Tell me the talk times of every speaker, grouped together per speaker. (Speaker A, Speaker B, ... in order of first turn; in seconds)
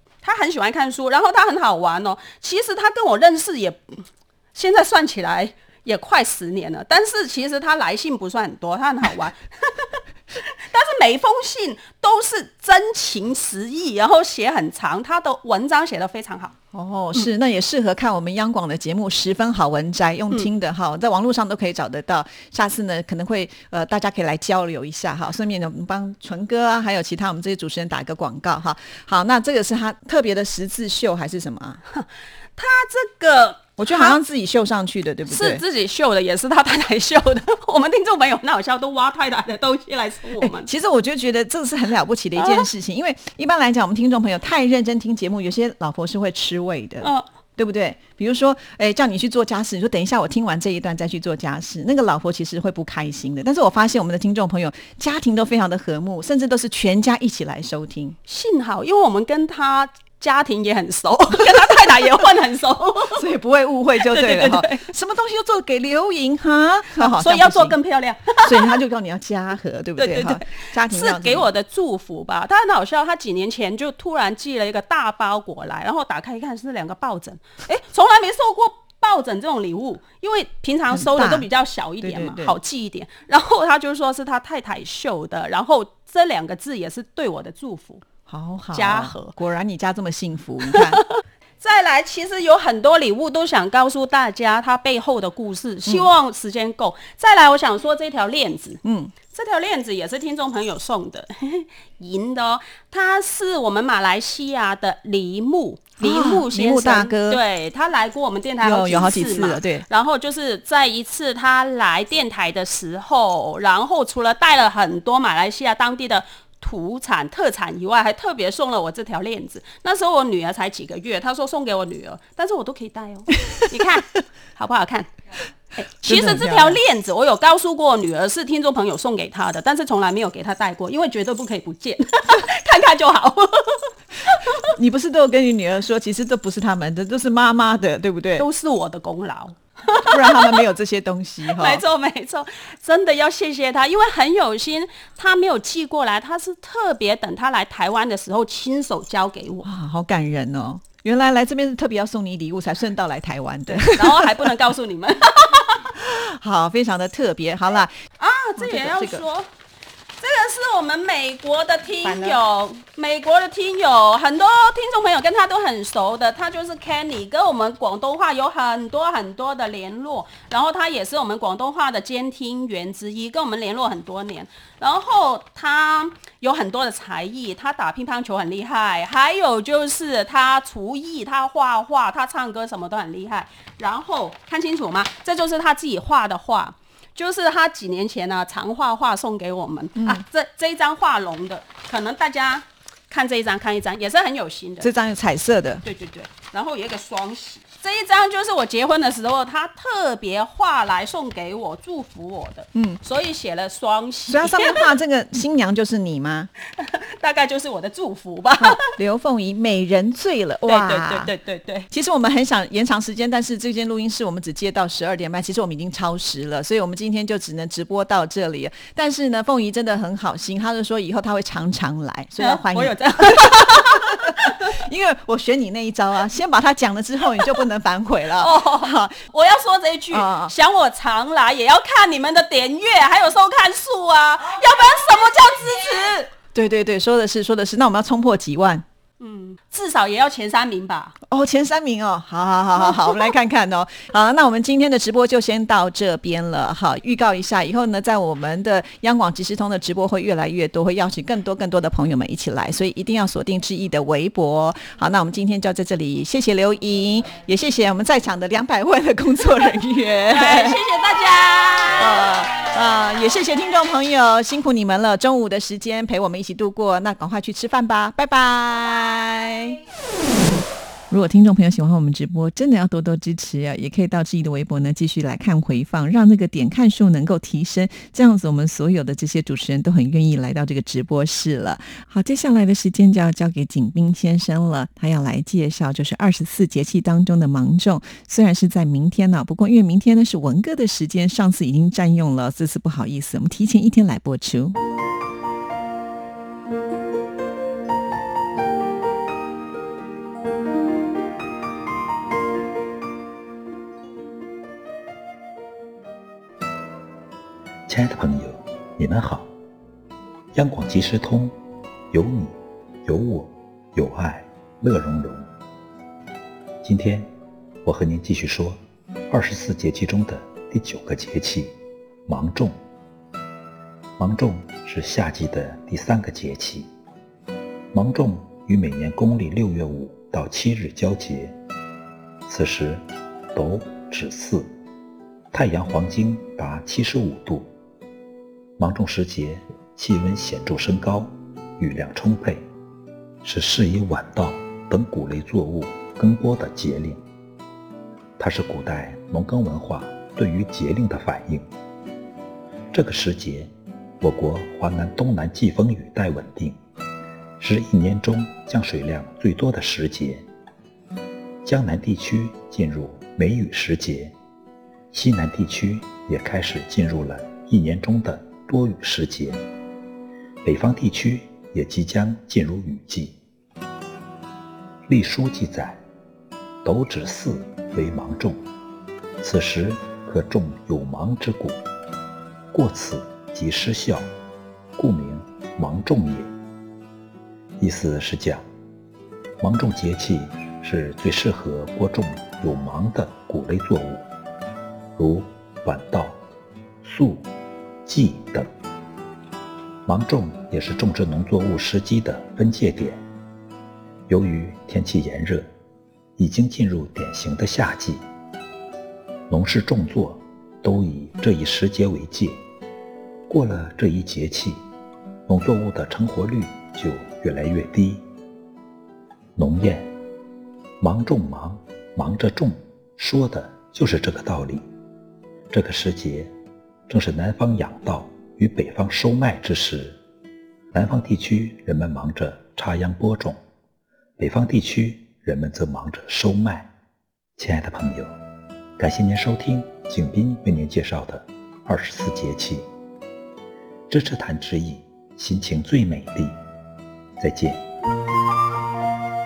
Speaker A: 0.2-16.5, 31.9-34.2, 35.3-40.7, 42.4-42.7, 58.3-63.3, 64.0-64.8, 67.0-68.8, 70.0-88.0, 88.7-89.3, 91.6-125.1, 125.8-134.7, 138.3-140.7, 141.4-149.7, 153.7-155.8, 158.2-159.5, 160.2-194.9, 195.8-204.9, 206.8-208.8, 210.7-211.9, 222.4-224.8, 228.4-236.3, 239.2-241.1, 260.3-262.2
Speaker B: 16.7-31.8, 33.8-35.6, 40.4-58.2, 63.1-67.8, 68.4-71.5, 80.9-82.6, 88.3-91.0, 98.8-99.1, 106.0-107.4, 108.6-109.8, 126.0-126.8, 134.7-138.4, 140.0-141.8, 149.6-154.5, 155.9-157.9, 158.6-159.2, 162.0-162.4, 190.0-190.2, 194.8-195.8, 202.7-203.0, 204.3-206.5, 208.6-211.3, 211.9-229.2, 230.1-230.5, 236.5-238.8, 241.3-260.8, 262.0-269.8, 271.1-294.8
Speaker C: 307.9-309.5, 310.5-311.5, 312.1-315.5, 316.8-317.3, 317.8-318.8, 319.3-321.7, 322.3-322.7, 324.2-326.9, 327.9-331.5, 332.5-333.0, 333.5-334.7, 335.5-337.7, 338.8-342.6, 343.4-347.2, 348.4-351.6, 352.9-353.7, 354.2-356.8, 357.6-360.4, 361.6-364.3, 365.1-369.6, 370.6-373.3, 375.1-376.0, 376.8-378.6, 379.4-381.8, 382.7-384.3, 384.9-386.5, 387.8-388.6, 389.6-394.2, 395.2-396.4, 397.0-397.4, 398.1-398.7, 400.1-403.2, 404.3-405.6, 406.4-408.2, 409.5-412.6, 413.5-414.8, 415.5-418.2, 419.6-420.1, 421.0-424.8, 425.7-426.5, 427.1-430.2, 430.9-433.6, 434.4-436.9, 437.6-438.3, 439.0-442.8, 444.1-446.6, 447.4-447.8